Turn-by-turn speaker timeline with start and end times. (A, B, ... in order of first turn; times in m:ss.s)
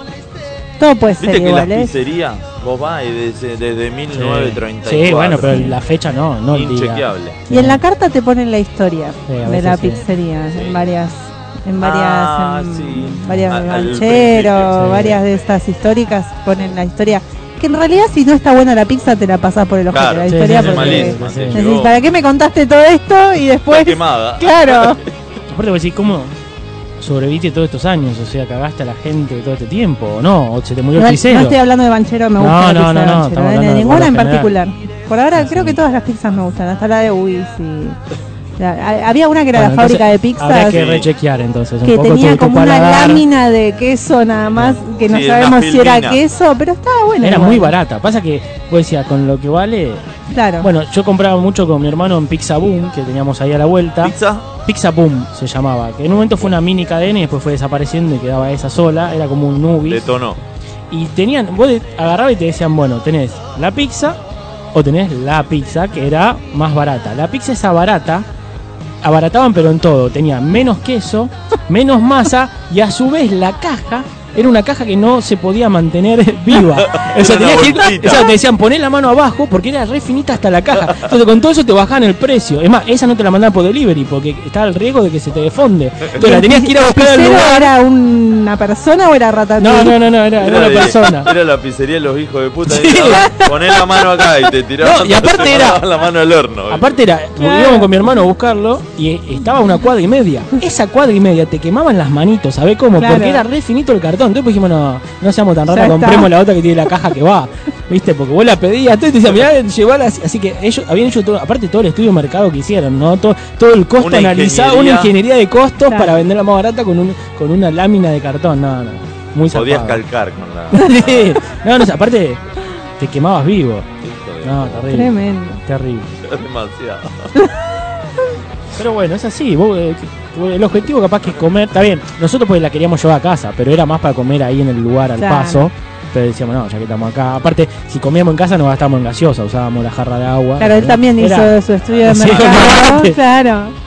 0:00.8-0:01.9 A
0:01.2-0:05.8 B
0:04.1-0:07.8 C
0:06.5-0:07.4 B
0:07.5-0:25.0 A
0:09.3-0:10.0 C
0:10.5-0:10.9 B
0:11.8-0:15.1 B
0:14.7-0:15.2 C
0:19.9-0:22.0 B
0:20.3-0:21.7 C
0:23.7-0:25.0 B
0:25.5-0:26.4 C
0:27.0-0:31.6 C
0:31.0-0:38.0 A
0:32.4-0:34.5 C
0:35.4-0:35.8 C
0:38.6-0:40.8 A
0:39.5-0:43.2 C
0:40.7-0:41.1 B
0:41.8-0:47.7 A
0:45.0-0:46.2 B
0:47.2-0:50.0 C
0:50.3-0:50.7 A
0:50.6-0:54.2 C
0:54.0-0:54.5 B
0:54.7-1:00.0 C
0:59.9-1:00.4 B
1:00.9-1:04.2 C
1:04.7-1:08.3 C
1:09.0-1:27.7 C
1:16.8-1:18.3 B
1:26.2-1:30.0 A
1:29.6-1:31.3 C
1:30.4-1:37.0 B
1:32.7-1:33.5 C
1:34.8-1:35.8 C
1:36.7-2:00.0 C
1:37.4-1:37.9 A
1:43.0-1:43.4 A
1:45.7-1:46.3 A
1:54.0-1:55.1 B
1:55.9-1:56.1 A
1:59.5-2:01.4 B
2:00.7-2:02.4 C
2:03.0-2:03.9 C
2:04.0-2:05.1 B
2:04.4-2:05.1 C
2:04.9-2:05.6 A
2:05.6-2:06.2 C
2:06.2-2:07.3 B
2:08.8-2:21.5 C
2:15.2-2:15.7 A
2:20.6-2:23.8 A
2:21.9-2:22.9 B
2:22.0-2:23.2 C